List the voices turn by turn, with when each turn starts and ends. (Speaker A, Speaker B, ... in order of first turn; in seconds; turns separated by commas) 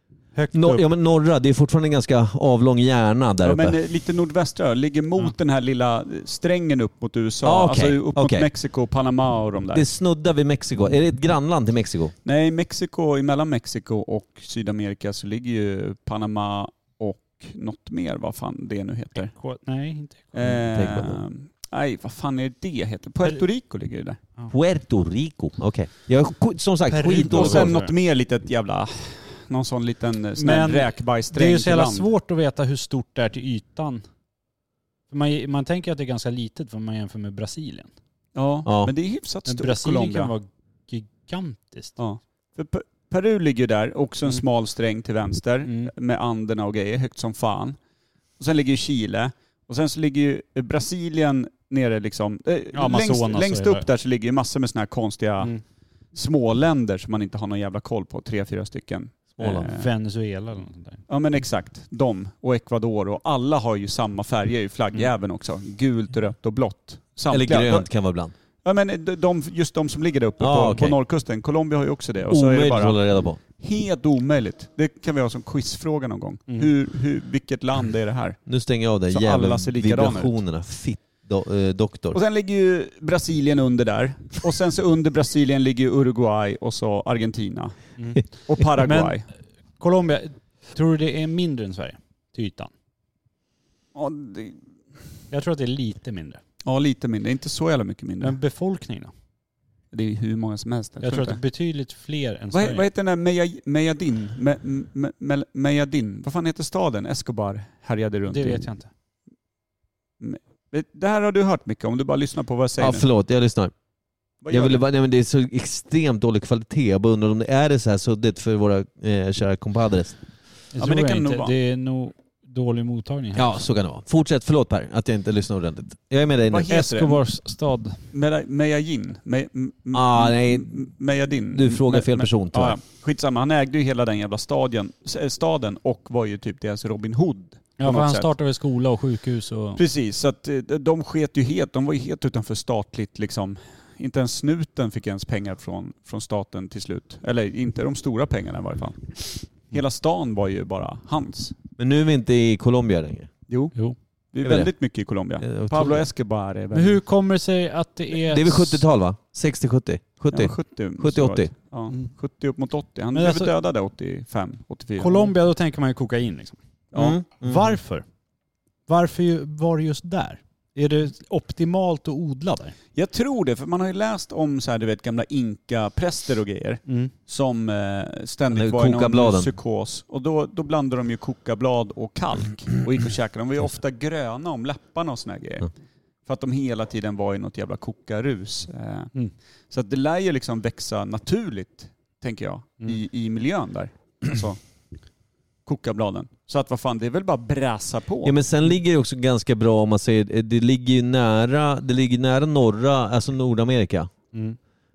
Speaker A: 0.3-0.8, Speaker B: 0.5-3.8, Speaker C: 3.4-9.9, Speaker B: 7.4-8.5, Speaker B: 9.7-12.1, Speaker C: 12.2-19.3, Speaker A: 19.3-20.6, Speaker C: 20.3-24.2, Speaker B: 20.7-21.2, Speaker B: 24.5-27.8, Speaker A: 26.9-27.9, Speaker C: 27.1-32.1, Speaker A: 30.4-34.0, Speaker A: 35.1-37.9, Speaker C: 38.4-40.3, Speaker B: 38.7-38.9, Speaker A: 39.5-42.0, Speaker C: 42.0-47.8, Speaker A: 45.7-45.9, Speaker C: 48.4-55.5, Speaker A: 52.7-53.9, Speaker C: 56.1-59.9, Speaker B: 59.4-59.7, Speaker A: 59.5-61.0, Speaker C: 61.1-67.9, Speaker B: 67.3-68.3, Speaker C: 68.7-73.0, Speaker B: 70.4-71.0, Speaker B: 72.3-73.4, Speaker C: 73.6-78.4, Speaker B: 78.5-82.2, Speaker C: 79.1-80.3, Speaker C: 82.1-89.3, Speaker A: 88.0-89.2, Speaker A: 89.8-92.7, Speaker C: 94.0-94.6, Speaker A: 95.3-96.4, Speaker C: 96.6-98.4, Speaker A: 98.2-99.1, Speaker C: 99.9-101.4, Speaker A: 101.0-102.9, Speaker C: 102.5-108.6, Speaker A: 108.3-108.9, Speaker C: 110.2-113.0, Speaker B: 112.8-113.7, Speaker C: 114.4-114.8, Speaker B: 114.5-120.2, Speaker A: 120.7-123.7, Speaker C: 120.8-121.5, Speaker B: 123.3-126.8, Speaker C: 126.5-127.2, Speaker A: 126.7-128.0, Speaker C: 128.1-138.3, Speaker B: 129.9-130.9, Speaker B: 131.5-132.8, Speaker A: 137.8-139.8, Speaker C: 139.8-151.6, Speaker B: 151.8-153.3, Speaker C: 153.5-153.8, Speaker C: 154.3-157.0, Speaker B: 154.4-154.7, Speaker B: 155.4-156.1, Speaker A: 156.7-158.9, Speaker B: 158.3-161.5, Speaker C: 160.3-165.3, Speaker A: 163.1-163.5, Speaker A: 165.0-166.6, Speaker C: 166.9-167.2, Speaker B: 166.9-167.8, Speaker A: 167.4-168.1, Speaker A: 168.9-172.8, Speaker C: 172.9-185.7, Speaker A: 176.9-177.1, Speaker B: 178.5-179.5, Speaker C: 186.3-189.1, Speaker C: 189.7-194.6, Speaker C: 195.7-198.4, Speaker B: 198.2-204.1, Speaker A: 204.3-204.6